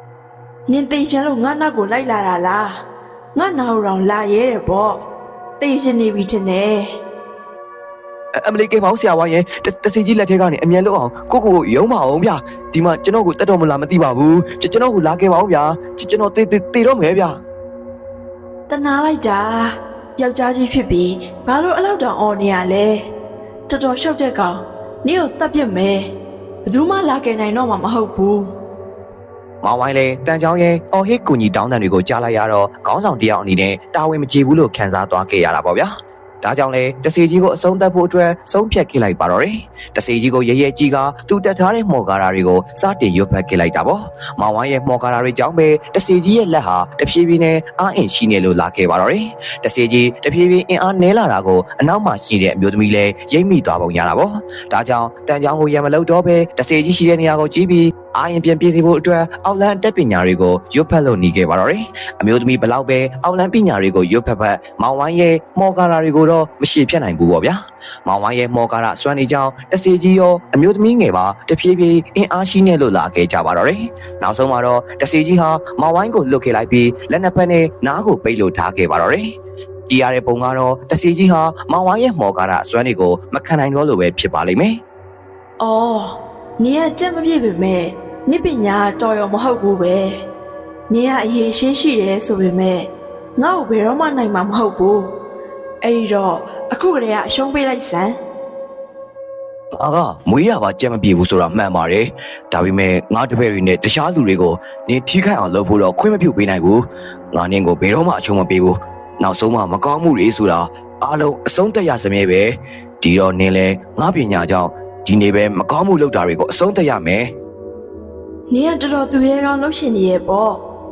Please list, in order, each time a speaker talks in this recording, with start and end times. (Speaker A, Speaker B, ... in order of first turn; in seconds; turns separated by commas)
Speaker A: 0.7-2.8, Speaker A: 3.4-5.0, Speaker A: 5.6-6.9, Speaker B: 8.4-17.4, Speaker A: 18.7-23.0, Speaker A: 23.7-26.1, Speaker A: 26.7-28.5, Speaker B: 29.6-35.9, Speaker B: 36.4-79.3, Speaker B: 79.9-84.8, Speaker A: 85.6-90.2, Speaker A: 90.9-95.1, Speaker A: 95.8-98.2, Speaker B: 99.8-117.3, Speaker A: 118.5-120.6